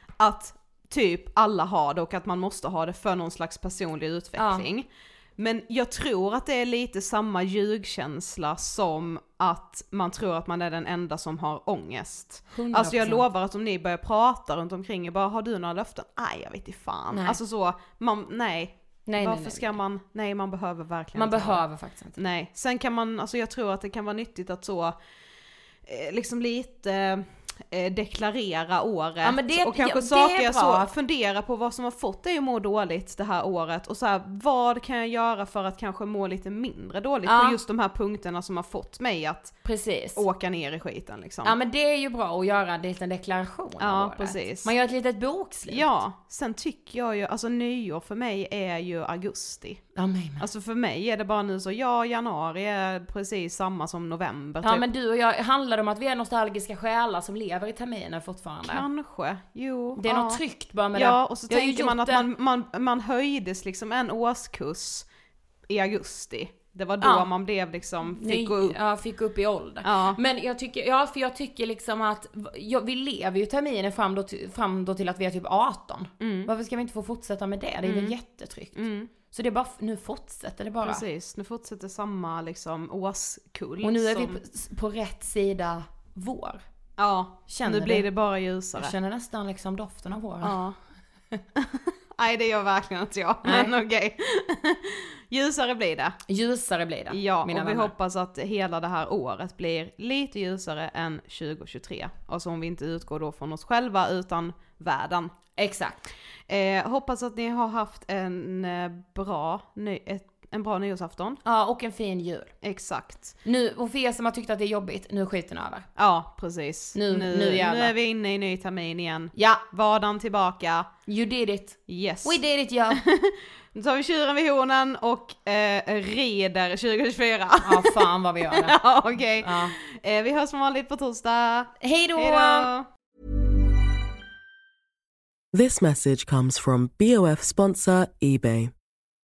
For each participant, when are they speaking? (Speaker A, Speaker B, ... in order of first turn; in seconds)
Speaker A: 0.2-4.9, 5.4-21.6, 22.1-24.9, 25.9-41.5, 43.8-44.7, 45.7-49.8, 50.4-54.8, 58.6-60.4, 60.9-65.1, 65.7-68.8, 69.8-70.2, 76.2-76.5, 77.8-78.2, 78.8-79.1, 80.8-84.4, 87.0-88.9, 90.4-90.8, 91.6-96.2, 97.1-105.3, 106.5-111.4, 112.6-113.4, 116.0-120.9, 121.9-122.4, 122.9-132.8
Speaker B: 4.4-4.7, 12.5-13.3, 17.1-17.4, 19.1-19.8, 21.1-22.2, 29.2-30.9, 37.2-37.6, 39.6-40.2, 41.4-46.0, 49.9-50.5, 54.6-58.9, 60.0-62.3, 67.0-67.3, 68.1-81.0, 83.8-86.6, 87.5-88.1, 88.8-90.6, 93.4-93.7, 96.3-97.9, 105.5-106.1, 111.4-112.5, 113.4-115.9, 116.9-117.9, 119.3-119.6, 121.0-123.0, 127.6-128.8, 129.4-129.7, 131.8-132.7
Speaker C: 135.5-138.7